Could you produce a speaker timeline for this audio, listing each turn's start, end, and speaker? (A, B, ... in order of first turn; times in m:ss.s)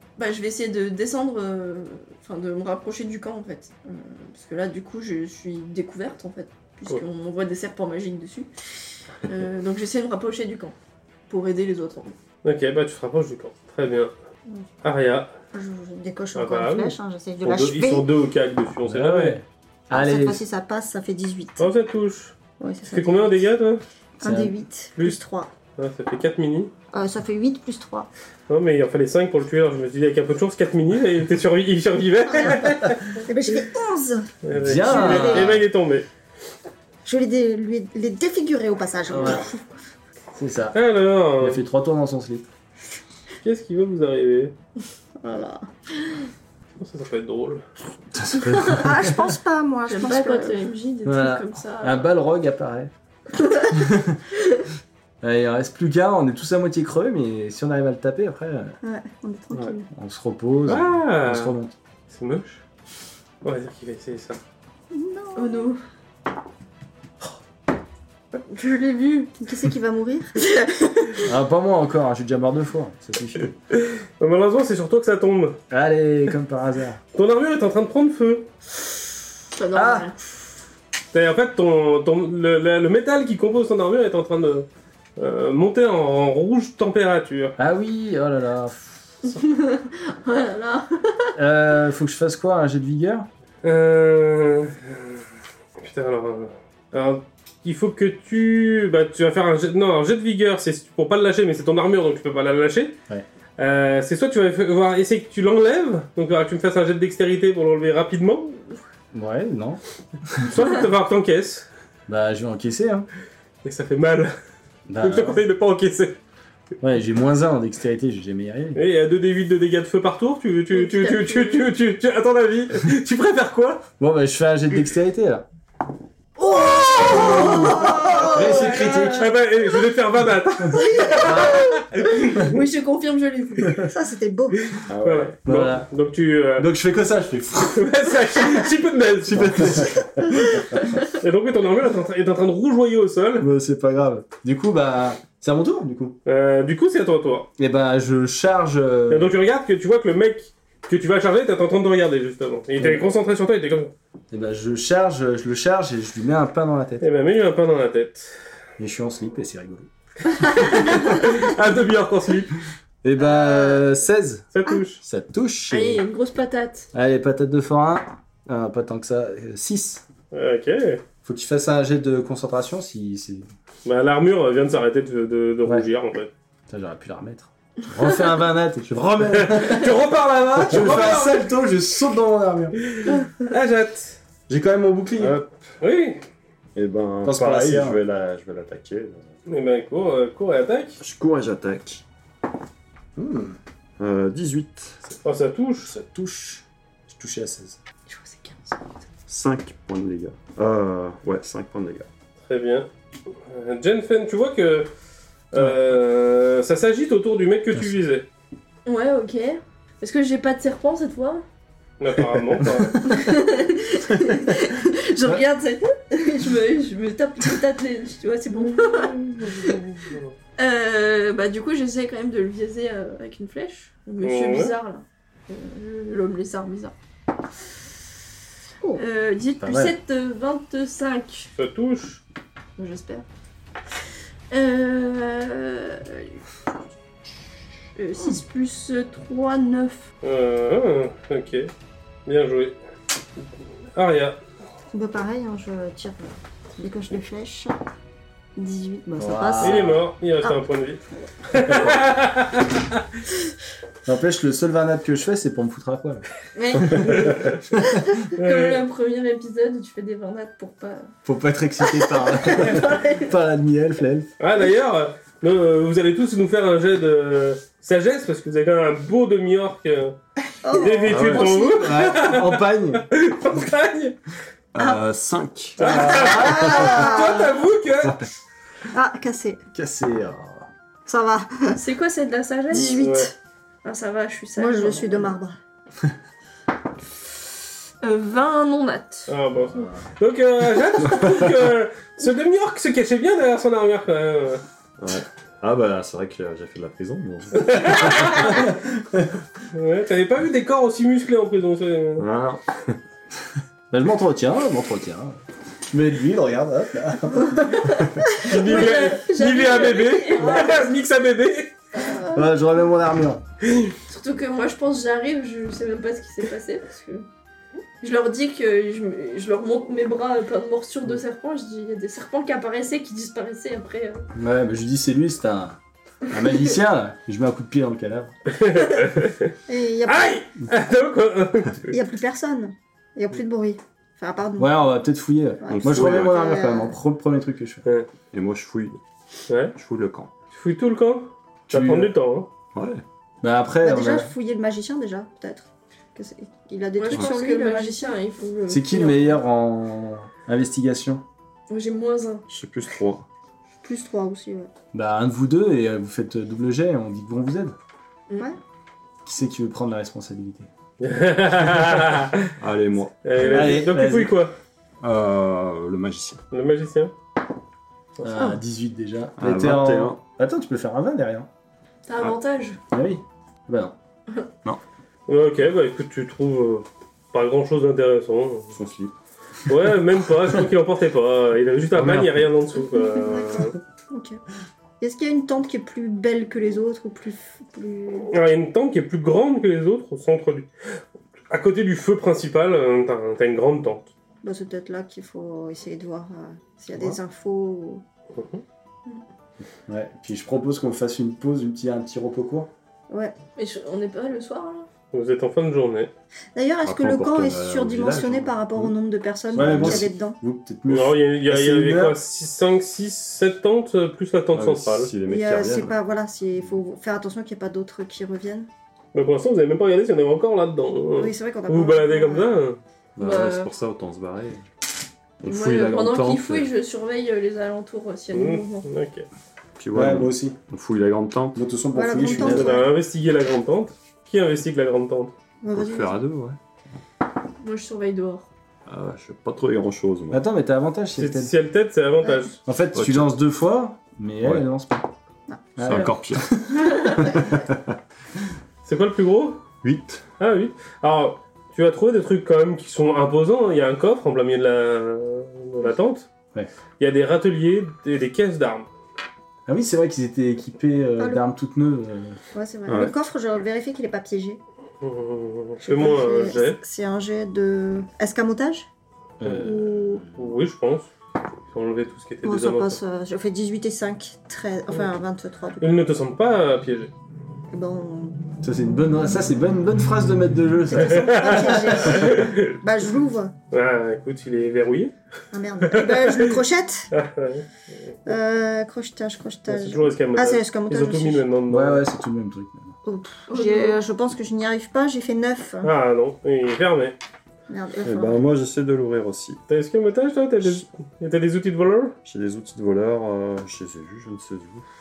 0:00.2-0:08.5 A
0:09.2-0:10.8 A
0:11.3-0:12.2 A
0:12.4-0:14.1 B
0:14.8-0:15.3 B
0:15.5-0:18.1 C
0:16.4-0:19.4 B
0:18.8-0:20.4 D
0:19.9-0:21.7 C
0:21.6-0:22.4 B
0:22.6-0:23.4 C
0:22.9-0:23.8 B
0:24.2-0:24.5 D
0:24.2-0:25.5 C
0:25.8-0:26.7 B
0:26.9-0:28.1 C
0:28.5-0:33.2 B
0:33.2-0:35.6 C
0:34.4-0:36.1 B
0:34.6-0:35.6 D
0:37.0-0:39.6 C
0:39.1-0:39.5 D
0:40.4-0:40.8 D
0:40.7-0:41.6 B
0:41.4-0:42.5 D
0:43.4-0:44.6 B
0:45.2-0:45.7 C
0:46.8-0:47.6 B
0:48.1-0:49.2 D
0:48.5-0:48.8 A
0:48.7-0:50.6 C
0:49.9-0:52.1 A
0:51.0-0:52.9 D
0:53.7-0:54.2 D
0:55.2-0:58.8 D
0:58.8-0:59.9 C
0:59.5-0:59.8 E
0:59.9-1:01.8 D
1:00.7-1:01.6 B
1:02.1-1:02.6 B
1:03.4-1:04.4 B
1:04.9-1:05.7 C
1:05.4-1:05.8 A
1:08.5-1:09.4 A
1:09.4-1:10.4 C
1:10.5-1:11.2 A
1:11.2-1:13.5 D
1:13.8-1:15.6 B
1:15.7-1:17.0 D
1:17.1-1:18.5 B
1:19.5-1:20.2 A
1:19.7-1:20.1 D
1:21.1-1:27.6 B
1:27.6-1:29.1 D
1:29.2-1:31.4 A
1:31.4-1:33.3 D
1:33.6-1:35.2 B
1:35.8-1:43.0 B
1:43.6-1:48.6 B
1:49.1-1:50.6 D
1:50.4-1:51.7 B
1:52.1-1:53.1 D
1:53.6-1:54.3 B
1:54.9-1:55.4 D
1:55.0-1:56.2 B
1:56.8-1:58.8 D
1:58.8-2:03.9 B
2:00.7-2:01.7 A
2:04.0-2:05.5 D
2:06.4-2:09.2 A
2:07.0-2:08.4 C
2:07.1-2:07.5 B
2:07.3-2:09.3 D
2:08.6-2:12.5 B
2:11.2-2:11.7 D
2:12.2-2:13.8 A
2:13.8-2:14.8 C
2:14.7-2:16.7 B
2:14.9-2:15.4 E
2:15.4-2:15.9 D
2:16.6-2:17.9 D
2:17.7-2:19.9 B
2:19.2-2:20.6 D
2:21.1-2:23.5 B
2:23.4-2:26.2 D
2:26.2-2:27.5 B
2:27.6-2:29.4 D
2:29.1-2:33.9 B
2:32.8-2:33.1 D
2:34.3-2:37.1 D
2:37.0-2:38.3 B
2:38.8-2:39.9 D
2:40.3-2:42.6 B
2:43.0-2:44.5 D
2:43.3-2:43.7 C
2:44.5-2:45.0 B
2:45.0-2:46.0 D
2:45.7-2:46.9 A
2:46.9-2:50.0 D
2:50.3-2:51.0 B
2:51.2-2:53.5 D
2:53.8-2:56.3 B
2:56.7-3:02.8 D
2:59.3-3:01.5 B
3:02.8-3:04.2 B
3:04.5-3:05.4 D
3:05.2-3:06.2 B
3:06.8-3:09.3 E
3:07.2-3:08.0 D
3:09.5-3:11.0 B
3:11.0-3:12.0 E
3:13.2-3:13.6 D
3:14.0-3:15.0 E
3:15.2-3:16.0 B
3:15.9-3:17.8 D
3:18.1-3:19.0 A
3:19.3-3:22.1 E
3:22.4-3:22.9 B
3:23.5-3:24.9 B
3:25.5-3:28.3 B
3:28.9-3:31.4 A
3:32.0-3:33.0 B
3:32.6-3:33.2 D
3:33.0-3:39.8 A
3:34.2-3:34.5 D
3:38.8-3:40.3 B
3:40.6-3:46.9 A
3:44.2-3:44.7 B
3:49.0-3:51.5 A
3:49.6-3:50.0 D
3:51.6-3:52.2 B
3:52.8-3:53.2 A
3:54.5-3:56.4 A
3:58.0-4:00.0 A
4:00.2-4:01.7 B
4:02.3-4:02.8 B
4:04.0-4:04.4 B
4:04.9-4:07.8 C
4:08.6-4:10.6 C
4:09.2-4:10.0 D
4:09.6-4:13.0 B
4:14.0-4:16.2 D
4:16.6-4:17.4 A
4:16.8-4:18.2 D
4:17.0-4:17.6 B
4:18.3-4:21.1 A
4:18.4-4:18.8 B
4:21.2-4:24.3 D
4:21.9-4:23.3 A
4:24.4-4:30.2 B
4:30.6-4:32.0 C
4:30.7-4:34.2 B
4:31.1-4:33.1 D
4:31.1-4:31.4 E
4:34.7-4:36.0 E
4:35.8-4:38.2 B
4:35.8-4:37.3 D
4:35.8-4:37.6 C
4:38.9-4:39.6 C
4:39.7-4:40.7 D
4:41.1-4:41.8 C
4:41.7-4:43.1 A
4:42.7-4:43.4 C
4:42.7-4:43.3 B
4:43.8-4:45.4 A
4:44.6-4:45.6 C
4:48.0-4:49.3 A
4:49.3-4:54.6 B
4:49.7-4:50.0 D
4:55.0-4:58.5 E
4:57.6-4:58.6 B
4:59.0-4:59.3 D
4:59.7-5:02.3 B
5:02.2-5:03.0 E
5:03.9-5:08.0 D
5:07.8-5:11.0 A
5:08.4-5:11.7 B
5:12.0-5:12.4 C
5:12.3-5:13.4 D
5:13.6-5:13.9 B
5:14.1-5:17.3 A
5:18.0-5:24.3 A
5:24.4-5:28.3 D
5:28.5-5:29.5 B
5:29.7-5:30.3 C
5:30.1-5:31.9 B
5:31.9-5:34.8 C
5:34.6-5:37.8 D
5:35.6-5:37.0 C
5:35.7-5:36.4 E
5:38.3-5:39.0 E
5:39.5-5:39.7 B
5:39.8-5:40.3 E
5:40.5-5:42.5 B
5:41.7-5:42.1 E
5:42.7-5:43.0 E
5:43.4-5:44.3 D
5:43.8-5:48.2 C
5:47.0-5:49.4 A
5:48.7-5:51.2 D
5:51.7-5:52.5 A
5:52.5-5:53.3 E
5:53.8-5:54.7 C
5:54.9-5:57.8 D
5:59.2-6:00.7 D
6:01.0-6:02.5 B
6:02.6-6:03.2 E
6:03.2-6:04.6 B
6:03.4-6:04.4 D
6:05.0-6:06.4 E
6:06.5-6:07.1 B
6:08.2-6:11.5 D
6:09.4-6:10.2 E
6:12.1-6:12.8 A
6:12.9-6:14.0 D
6:15.3-6:18.7 B
6:18.7-6:19.1 E
6:19.7-6:23.8 B
6:22.0-6:22.2 D
6:23.1-6:24.4 C
6:25.0-6:28.3 C
6:28.3-6:30.7 B
6:31.5-6:34.1 B
6:34.4-6:38.0 C
6:38.3-6:38.6 B
6:39.9-6:42.7 D
6:43.1-6:43.4 C
6:43.6-6:44.9 A
6:45.1-6:46.1 B
6:46.6-6:50.4 C
6:46.8-6:48.9 E
6:49.5-6:50.1 E
6:49.6-6:52.2 D
6:50.9-6:55.1 B
6:54.5-6:56.0 E
6:55.2-6:58.7 C
6:59.1-7:02.8 B
7:01.2-7:02.5 C
7:03.2-7:04.6 E
7:03.2-7:03.7 A
7:05.4-7:06.7 E
7:05.5-7:08.9 A
7:08.3-7:09.2 B
7:09.8-7:11.6 E
7:09.9-7:10.6 D
7:11.6-7:12.8 D
7:11.9-7:12.9 C
7:12.3-7:15.3 B
7:15.6-7:16.2 C
7:15.7-7:16.6 E
7:17.6-7:18.5 A
7:18.9-7:20.4 E
7:20.3-7:21.5 D
7:21.2-7:22.6 B
7:22.2-7:22.5 C
7:22.7-7:25.1 D
7:22.9-7:23.3 E
7:25.8-7:27.0 D
7:25.8-7:28.0 E
7:28.8-7:29.6 B
7:29.8-7:30.2 E
7:30.4-7:36.3 B
7:37.0-7:38.9 B
7:39.7-7:42.4 D
7:42.5-7:44.6 C
7:42.9-7:43.2 E
7:45.0-7:46.8 B
7:45.8-7:48.9 C
7:49.4-7:49.7 D
7:49.4-7:51.1 B
7:49.6-7:50.3 C
7:51.7-7:53.0 B
7:52.4-7:55.9 C
7:55.8-7:57.1 B
7:57.7-7:58.4 C
7:58.6-8:02.2 D
8:00.9-8:03.5 C
8:01.0-8:02.8 B
8:03.7-8:05.1 B
8:05.5-8:07.1 C
8:05.8-8:06.6 B
8:07.1-8:07.7 B
8:08.3-8:11.4 C
8:09.7-8:12.1 B
8:11.7-8:13.0 D
8:13.0-8:15.9 C
8:13.5-8:14.0 A
8:15.8-8:17.2 B
8:17.7-8:18.4 C
8:18.0-8:19.6 E
8:19.7-8:22.2 B
8:22.2-8:24.8 E